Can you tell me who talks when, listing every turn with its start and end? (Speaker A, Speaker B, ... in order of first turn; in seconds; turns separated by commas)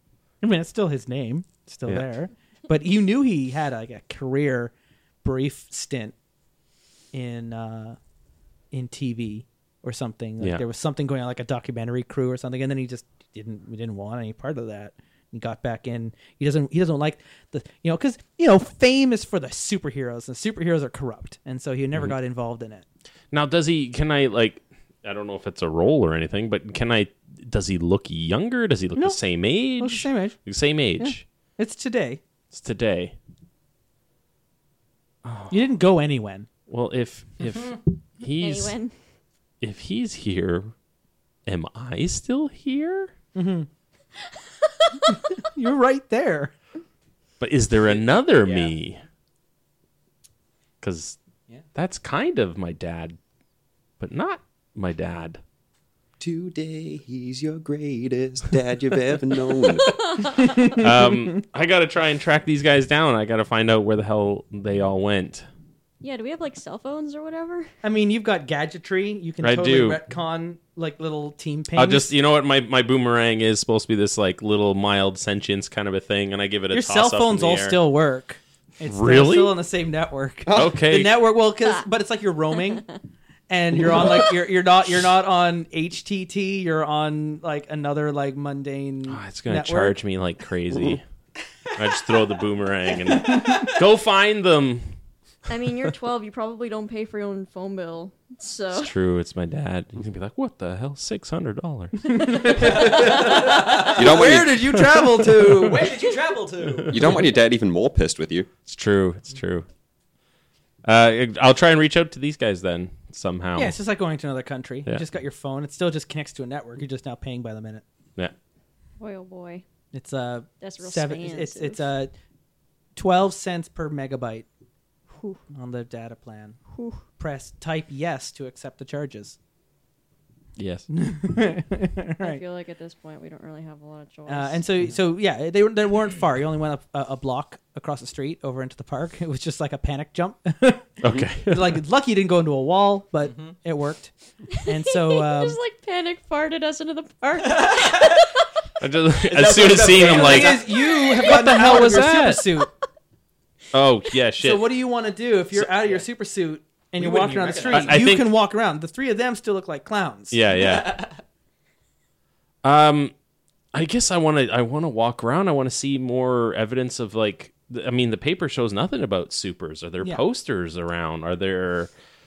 Speaker A: 0.4-4.7, Speaker A: 5.2-6.1, Speaker A: 7.1-8.0, Speaker A: 8.7-22.8, Speaker B: 23.3-31.2, Speaker A: 29.8-30.4, Speaker A: 31.0-32.2, Speaker B: 32.5-33.1, Speaker B: 35.2-35.6, Speaker A: 35.5-36.5, Speaker B: 36.7-38.7, Speaker C: 38.4-38.9, Speaker B: 39.6-40.7, Speaker B: 41.5-43.1, Speaker A: 43.3-43.7, Speaker C: 44.6-45.1, Speaker A: 45.3-46.5, Speaker B: 47.4-49.0, Speaker D: 47.9-48.7, Speaker B: 50.8-51.2, Speaker B: 51.7-53.2, Speaker B: 54.0-55.4, Speaker E: 56.2-59.9, Speaker C: 59.9-60.5, Speaker A: 60.4-61.1, Speaker B: 60.6-65.5, Speaker C: 66.0-67.7, Speaker A: 67.8-72.1, Speaker B: 69.4-70.0, Speaker B: 71.7-77.8, Speaker A: 76.7-82.9, Speaker B: 78.9-79.6, Speaker E: 80.5-80.8, Speaker B: 80.5-81.2, Speaker A: 83.5-89.9, Speaker B: 89.1-91.0, Speaker B: 91.7-94.9, Speaker D: 93.3-93.7, Speaker C: 95.5-98.9, Speaker B: 98.7-102.3, Speaker A: 102.1-106.0, Speaker D: 102.5-104.3, Speaker E: 103.9-104.6, Speaker B: 104.8-105.7, Speaker D: 105.5-107.0, Speaker B: 106.7-107.2, Speaker E: 106.9-108.5, Speaker B: 108.7-109.7, Speaker B: 110.8-113.8, Speaker A: 113.5-117.8, Speaker C: 119.0-119.6, Speaker A: 119.9-122.1, Speaker C: 120.6-121.8, Speaker A: 123.0-124.5, Speaker A: 125.5-126.6, Speaker C: 126.7-127.0, Speaker A: 127.2-129.4, Speaker B: 130.6-130.9, Speaker A: 130.9-132.4, Speaker C: 132.2-134.6, Speaker A: 134.3-144.1, Speaker B: 141.0-141.8, Speaker D: 143.3-143.5, Speaker C: 144.6-148.4, Speaker A: 144.6-145.6, Speaker D: 147.4-148.3, Speaker B: 148.8-150.6, Speaker D: 149.3-151.0, Speaker A: 150.1-152.7, Speaker C: 150.4-151.3, Speaker B: 151.2-152.5, Speaker B: 153.7-154.7, Speaker A: 154.4-160.4, Speaker D: 157.0-158.0, Speaker B: 157.7-158.3, Speaker B: 160.3-161.0, Speaker D: 160.5-161.2, Speaker B: 162.6-163.1, Speaker B: 163.7-171.9